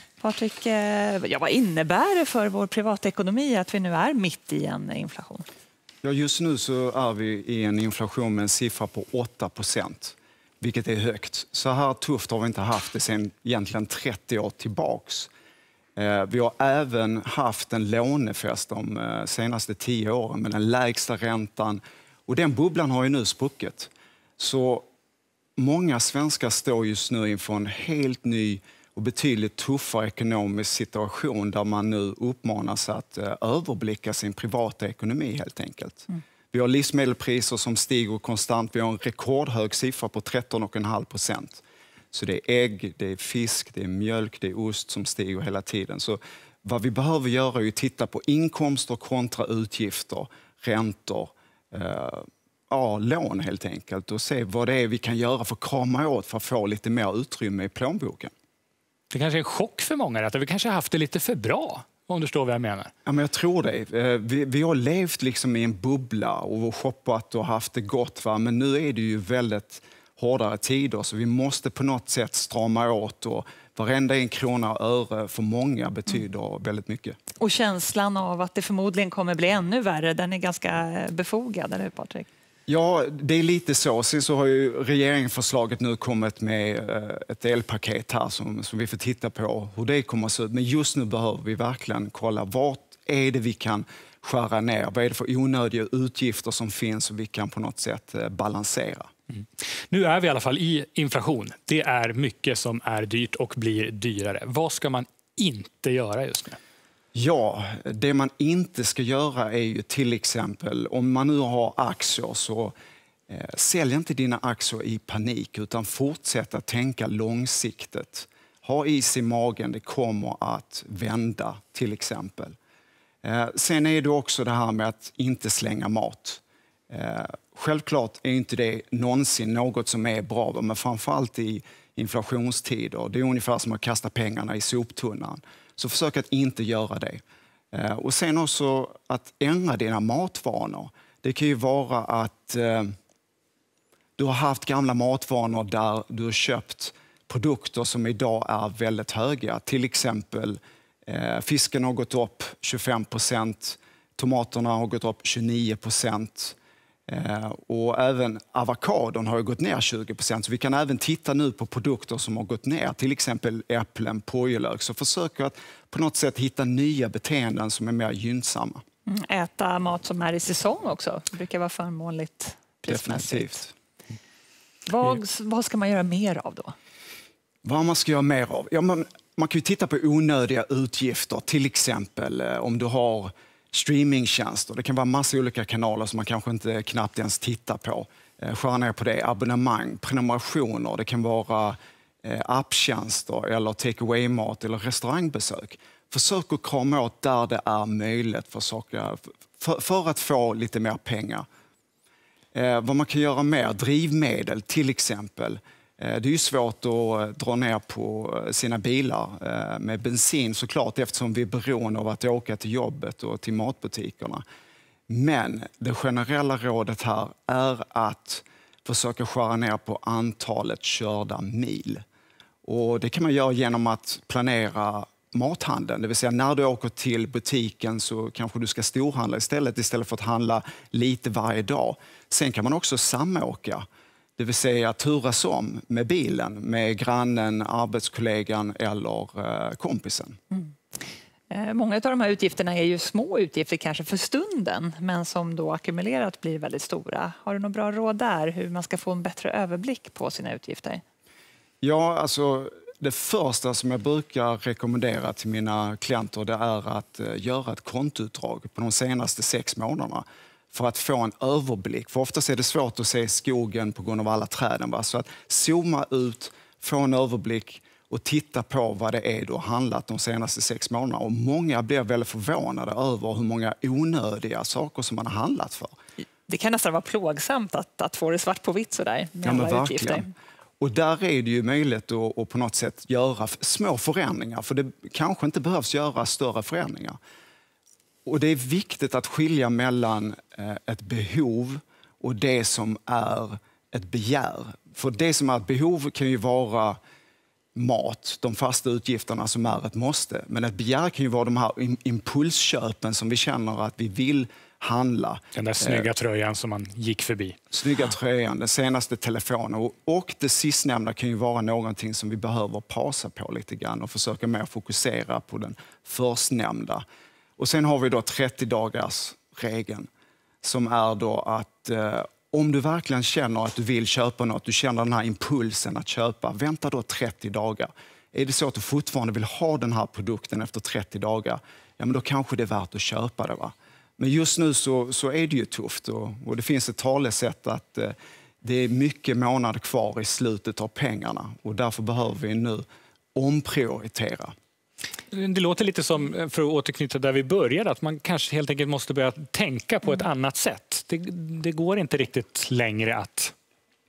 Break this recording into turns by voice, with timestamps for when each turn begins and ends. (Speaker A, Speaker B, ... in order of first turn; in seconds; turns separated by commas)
Speaker A: 0.2-5.5, Speaker B: 6.0-15.3, Speaker B: 16.0-24.9, Speaker B: 25.6-58.3, Speaker C: 59.1-62.9, Speaker B: 63.0-77.2, Speaker A: 77.4-82.3, Speaker B: 82.7-99.1, Speaker C: 99.9-106.6, Speaker B: 107.1-112.8, Speaker B: 113.3-122.6, Speaker B: 123.2-142.9, Speaker B: 144.2-156.6, Speaker B: 157.1-168.8, Speaker A: 169.1-173.6, Speaker B: 172.9-173.7, Speaker A: 174.9-176.8, Speaker B: 177.6-201.5, Speaker B: 202.5-214.4, Speaker B: 215.1-222.0, Speaker B: 222.6-233.8, Speaker B: 234.4-240.4, Speaker A: 241.5-251.0, Speaker B: 251.8-275.9, Speaker A: 276.5-280.3, Speaker B: 279.4-280.3, Speaker B: 280.8-287.2, Speaker B: 288.2-297.0, Speaker B: 297.8-306.1, Speaker C: 305.6-307.6, Speaker B: 307.7-317.0, Speaker B: 317.6-320.1, Speaker B: 320.6-342.8, Speaker B: 343.4-344.5, Speaker C: 345.3-353.5